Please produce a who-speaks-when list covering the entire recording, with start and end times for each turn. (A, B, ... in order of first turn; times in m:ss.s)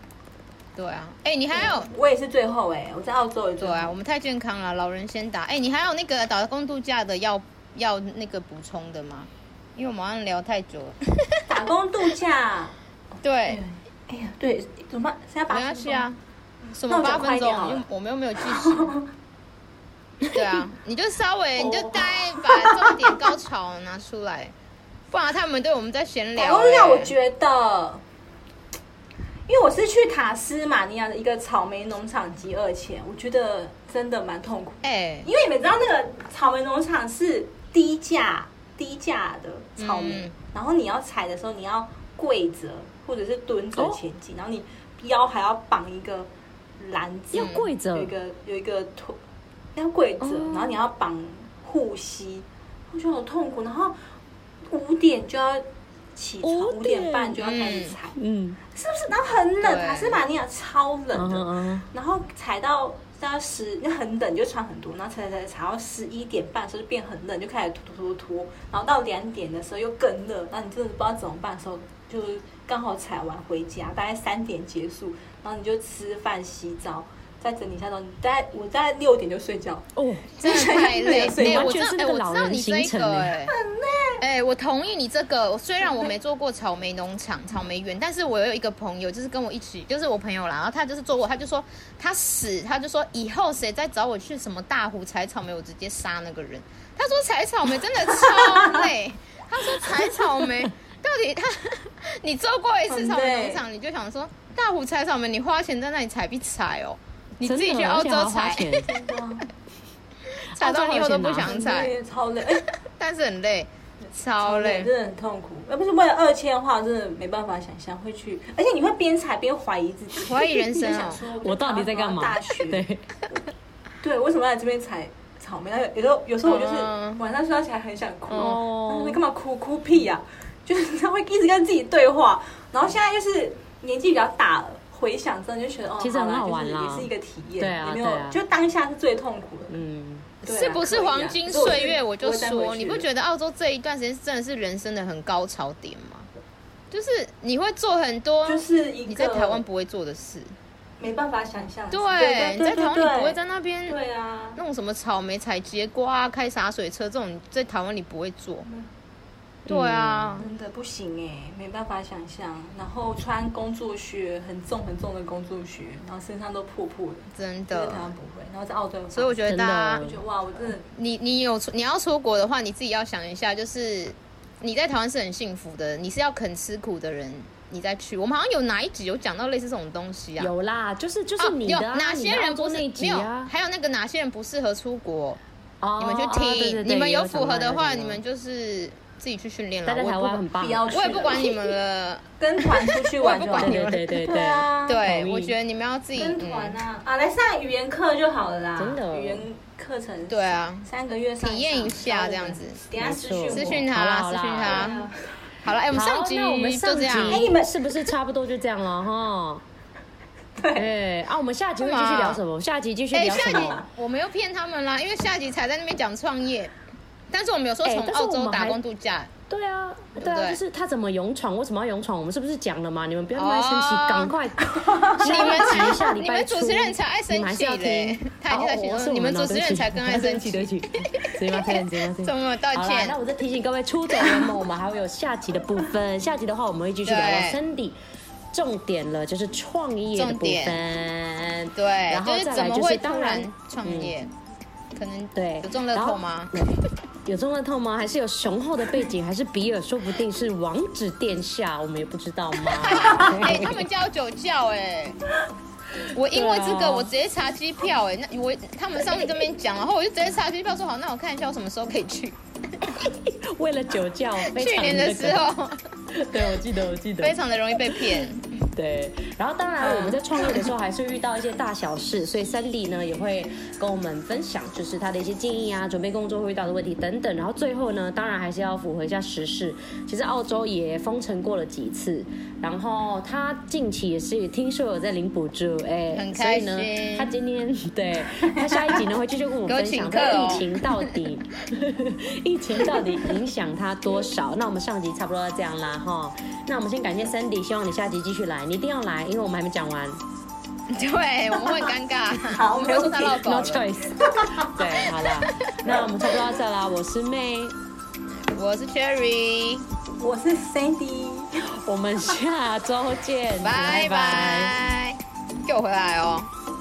0:00.8-0:01.9 A
0:01.5-0:04.0 B
0:03.6-0:11.4 A
0:11.5-0:12.8 B
0:13.2-0:13.6 A
0:13.5-0:16.1 B
0:15.5-0:16.2 A
0:16.7-0:18.9 A
0:16.9-0:17.8 B
0:18.4-0:19.1 B
0:20.3-0:24.5 A
0:21.6-0:23.2 B
0:25.1-0:27.1 A
0:26.4-0:28.0 B
0:29.5-0:49.2 B
0:34.8-0:35.3 A
0:39.8-0:40.3 A
0:43.8-0:44.0 C
0:47.3-0:48.1 C
0:47.4-0:47.7 A
0:49.8-0:54.0 B
0:50.2-0:50.8 C
0:54.7-0:58.2 B
0:56.4-0:57.5 C
0:57.4-0:58.0 A
0:58.2-0:58.6 C
0:58.7-1:19.9 B
0:59.6-1:00.2 A
1:01.1-1:01.9 C
1:20.0-1:23.4 C
1:20.4-1:23.6 A
1:20.4-1:21.8 B
1:23.5-1:24.2 B
1:24.2-1:48.9 A
1:38.2-1:38.9 B
1:42.9-1:43.6 B
1:47.4-1:48.9 C
1:48.8-1:49.5 B
1:50.5-1:51.9 A
1:50.6-1:51.6 C
1:51.4-1:52.6 B
1:52.8-1:54.9 A
1:54.4-2:02.9 B
2:00.2-2:01.2 A
2:01.4-2:03.0 C
2:04.0-2:19.8 B
2:06.5-2:07.2 A
2:08.3-2:08.6 A
2:08.3-2:09.2 C
2:16.0-2:18.4 C
2:19.7-2:20.3 C
2:20.4-2:23.1 B
2:20.4-2:26.3 A
2:26.9-2:30.5 A
2:28.4-2:29.6 B
2:31.0-2:34.6 B
2:31.9-2:34.0 A
2:34.6-2:38.7 A
2:39.7-2:40.4 C
2:39.7-2:40.5 A
2:40.4-2:50.9 B
2:47.3-2:48.1 A
2:49.1-2:50.0 A
2:49.4-2:50.2 C
2:50.9-3:00.5 A
3:00.4-3:03.5 C
3:01.4-3:05.4 A
3:05.8-3:08.2 C
3:06.0-3:14.3 A
3:09.9-3:11.0 C
3:10.6-3:11.8 B
3:12.4-3:15.0 B
3:13.6-3:15.5 C
3:14.9-3:16.8 A
3:16.2-3:23.9 B
3:18.8-3:19.4 C
3:20.3-3:20.9 A
3:21.4-3:22.8 A
3:23.0-3:24.9 C
3:23.5-3:25.1 A
3:24.6-3:25.4 B
3:25.6-3:27.5 A
3:25.9-3:29.6 C
3:27.2-3:28.1 B
3:30.6-3:30.9 B
3:30.7-3:33.8 C
3:31.8-3:32.4 A
3:33.1-3:36.7 A
3:33.2-3:33.9 B
3:37.3-3:39.3 A
3:37.8-3:38.8 C
3:39.5-3:58.0 C
3:40.2-3:40.6 A
3:43.4-3:44.3 A
3:44.7-3:46.0 B
3:45.2-3:53.2 A
3:57.0-3:57.6 A
3:58.5-4:04.1 C
4:00.2-4:00.8 A
4:01.7-4:04.3 A
4:05.0-4:06.5 A
4:05.4-4:13.8 C
4:12.7-4:15.2 A
4:16.1-4:22.9 A
4:16.2-4:17.1 C
4:22.9-4:25.5 C
4:24.4-4:25.8 A
4:26.1-4:27.4 C
4:27.2-4:28.5 A
4:27.9-5:00.2 C
4:29.8-4:30.2 A
4:46.1-4:47.3 A
4:48.4-4:49.0 B
4:49.7-4:50.9 A
5:00.9-5:03.8 A
5:02.5-5:03.4 B
5:03.4-5:07.8 C
5:04.2-5:04.7 B
5:05.0-5:05.9 A
5:08.5-5:09.8 A
5:10.2-5:11.6 B
5:11.8-5:14.8 C
5:13.6-5:16.5 A